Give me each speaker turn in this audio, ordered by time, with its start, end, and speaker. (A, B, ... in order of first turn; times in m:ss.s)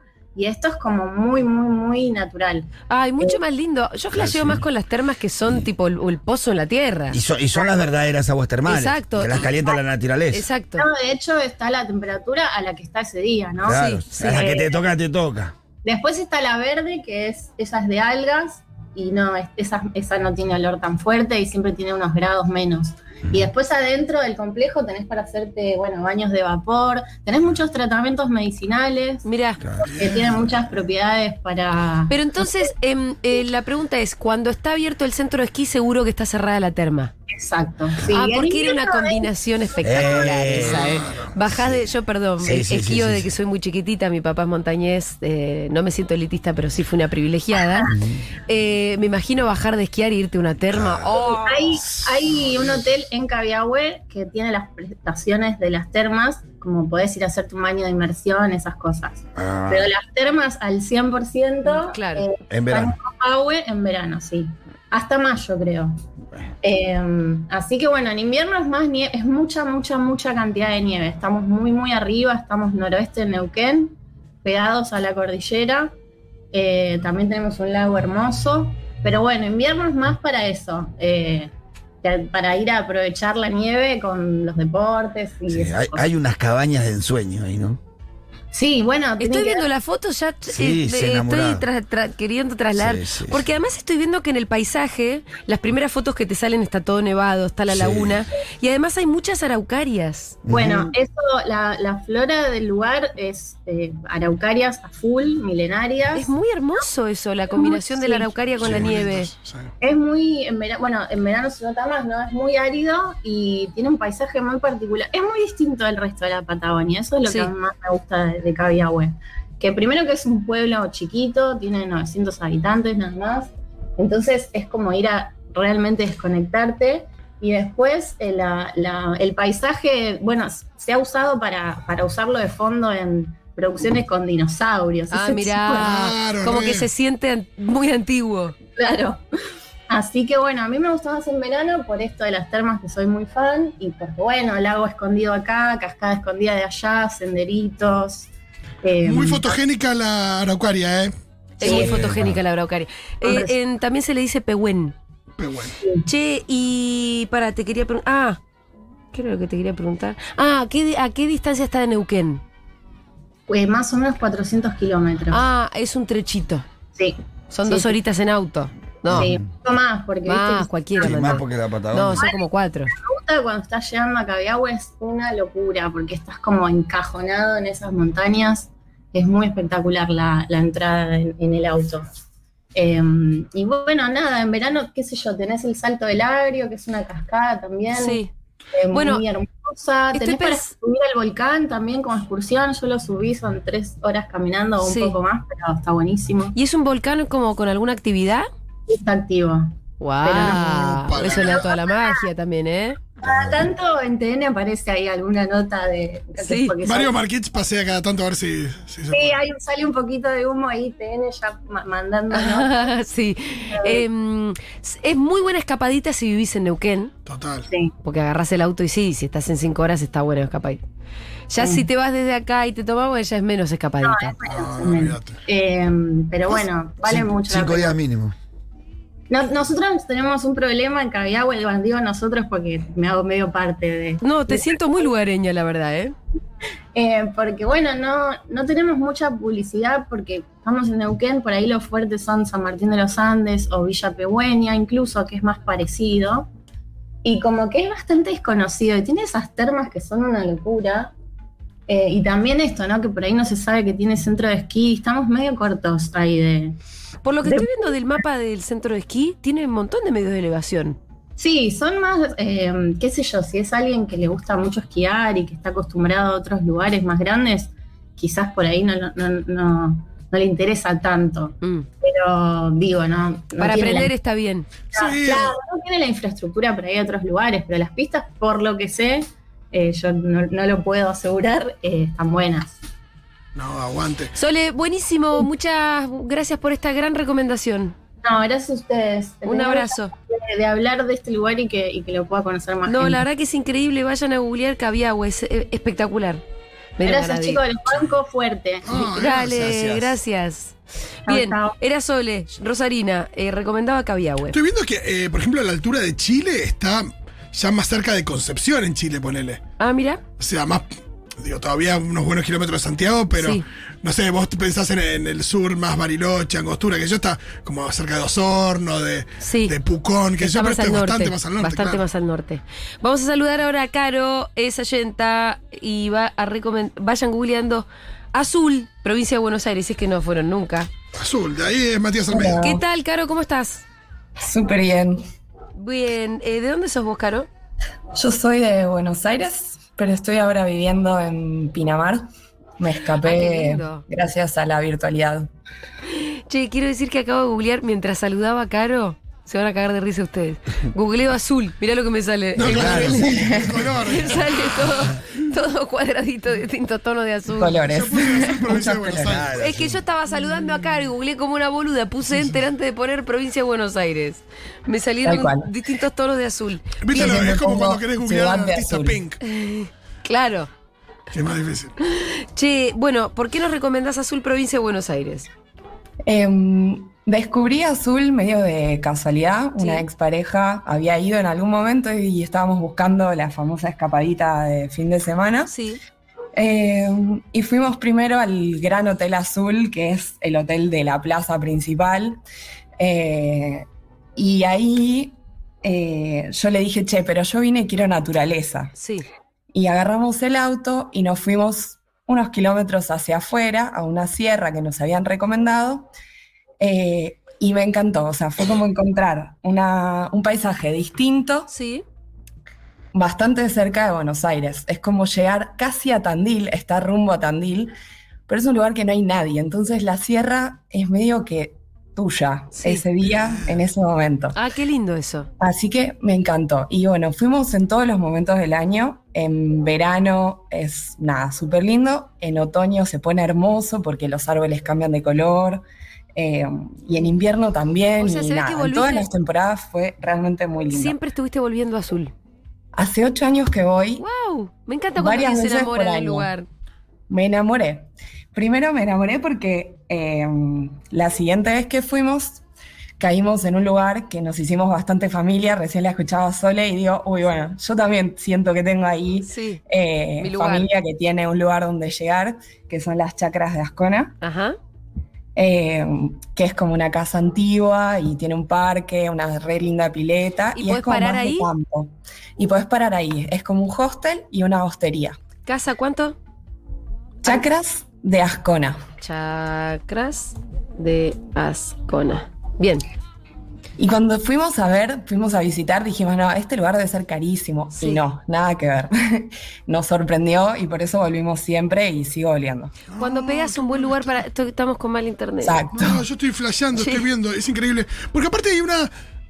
0:00.4-0:02.7 A
0:02.9-0:07.2 B
0:04.1-0:04.6 C
0:07.1-0:10.5 C
0:08.7-0:09.4 B
0:09.2-0:09.5 D
0:10.3-0:10.9 B
0:10.8-0:14.8 A
0:13.6-0:15.5 C
0:13.7-0:14.0 B
0:15.8-0:29.2 A
0:29.2-0:29.6 B
0:29.6-0:29.9 C
0:29.8-0:30.4 D
0:29.9-0:32.6 A
0:32.1-0:37.1 B
0:37.3-0:39.3 A
0:38.1-0:47.9 B
0:39.8-0:40.8 C
0:40.2-0:41.4 D
0:41.5-0:43.3 C
0:47.9-0:48.2 C
0:48.5-0:51.8 B
0:50.7-0:51.2 C
0:51.3-1:05.9 A
0:59.4-0:59.9 C
1:01.7-1:02.3 B
1:02.5-1:02.9 C
1:06.6-1:15.9 A
1:16.5-1:21.5 A
1:22.0-1:26.1 A
1:25.5-1:27.8 C
1:28.5-1:29.7 A
1:29.2-1:40.4 B
1:30.5-1:31.6 C
1:32.8-1:33.5 C
1:37.7-1:38.2 C
1:40.5-1:40.9 C
1:40.5-1:46.3 A
1:46.1-1:49.3 B
1:47.5-1:48.7 A
1:48.6-1:49.7 D
1:49.8-2:16.0 A
1:57.2-1:57.5 B
2:15.1-2:18.6 B
2:15.8-2:16.9 D
2:18.8-2:19.2 A
2:19.9-2:28.3 A
2:28.8-2:29.5 A
2:29.0-2:31.1 D
2:31.6-2:35.0 B
2:31.6-2:32.2 A
2:31.7-2:32.4 C
2:33.2-2:33.5 A
2:35.4-2:35.8 D
2:36.1-2:38.4 B
2:39.1-2:42.4 B
2:43.5-2:45.5 A
2:45.3-2:46.6 B
2:47.0-2:48.0 A
2:47.5-2:49.3 B
2:49.1-2:51.4 A
2:50.3-2:52.9 B
2:51.0-2:52.3 C
2:52.2-3:02.1 A
3:02.8-3:16.6 A
3:08.0-3:08.3 B
3:08.9-3:09.2 B
3:10.1-3:10.7 B
3:14.8-3:15.2 B
3:16.5-3:18.5 B
3:18.9-3:22.2 A
3:20.0-3:23.0 B
3:20.4-3:21.7 D
3:23.2-3:27.1 A
3:26.4-3:26.7 B
3:26.8-3:29.4 D
3:29.1-3:32.9 A
3:32.3-3:37.1 B
3:33.8-3:34.0 A
3:37.3-3:37.7 D
3:38.0-3:40.8 B
3:41.5-3:44.4 B
3:41.6-3:41.9 A
3:44.0-3:48.0 A
3:44.4-3:45.4 D
3:47.0-3:48.4 C
3:49.3-3:54.6 A
3:54.2-3:56.2 B
3:57.0-4:06.5 A
4:07.2-4:11.1 A
4:11.9-4:16.8 A
4:17.2-4:21.0 B
4:21.4-4:34.1 A
4:31.6-4:31.9 B
4:33.6-4:34.7 B
4:34.9-4:35.5 D
4:34.9-4:42.8 A
4:43.6-4:44.3 D
4:44.4-4:48.0 B
4:48.2-4:53.2 A
4:49.4-4:50.1 B
4:52.9-4:56.4 B
4:57.0-4:57.6 B
4:57.1-4:59.1 A
4:58.8-4:59.7 D
4:59.1-5:00.8 B
4:59.6-5:00.2 C
5:01.3-5:01.8 A
5:01.3-5:04.6 B
5:04.5-5:09.6 D
5:09.8-5:10.2 B
5:10.4-5:10.9 D
5:11.4-5:22.0 D
5:13.4-5:13.6 B
5:19.4-5:19.8 B
5:20.4-5:30.9 B
5:31.2-5:32.6 D
5:32.3-5:32.8 E
5:32.6-5:33.8 B
5:34.4-5:35.2 E
5:35.8-5:37.5 B
5:38.2-5:42.2 E
5:42.8-5:45.5 E
5:43.2-5:44.0 B
5:46.2-5:53.3 B
5:52.6-5:54.5 D
5:52.6-5:53.8 E
5:52.7-5:53.0 C
5:54.1-5:58.6 B
5:57.6-5:59.4 E
5:57.9-5:59.7 D
5:59.2-6:00.0 C
5:59.6-6:06.8 B
6:05.2-6:05.7 E
6:07.0-6:09.4 D
6:07.1-6:09.2 E
6:09.4-6:10.7 B
6:11.3-6:11.9 D
6:12.2-6:15.5 B
6:16.2-6:25.7 E
6:19.8-6:20.1 B
6:25.6-6:26.0 B
6:26.6-6:32.4 E
6:33.0-6:38.9 E
6:39.0-6:39.2 B
6:39.7-6:46.1 E
6:46.8-6:51.7 E
6:51.7-6:52.0 B
6:53.1-6:57.9 E
6:58.5-7:04.6 E
7:02.8-7:03.0 B
7:03.4-7:03.8 D
7:04.5-7:05.5 B
7:05.6-7:15.8 E
7:16.4-7:21.2 E
7:18.2-7:19.3 B
7:20.9-7:22.3 B
7:23.0-7:24.2 E
7:24.2-7:26.7 B
7:25.2-7:26.5 E
7:27.3-7:32.6 E
7:33.2-7:44.4 E
7:39.4-7:39.8 B
7:40.4-7:40.9 B
7:44.4-7:44.8 B
7:45.6-7:55.4 E
7:50.8-7:51.7 B
7:55.6-7:56.4 B
7:57.4-7:59.0 E
7:59.2-8:03.0 B
8:04.0-8:12.9 E
8:13.1-8:14.3 D
8:13.2-8:15.8 B
8:15.6-8:16.2 E
8:16.0-8:19.1 D
8:17.0-8:17.2 B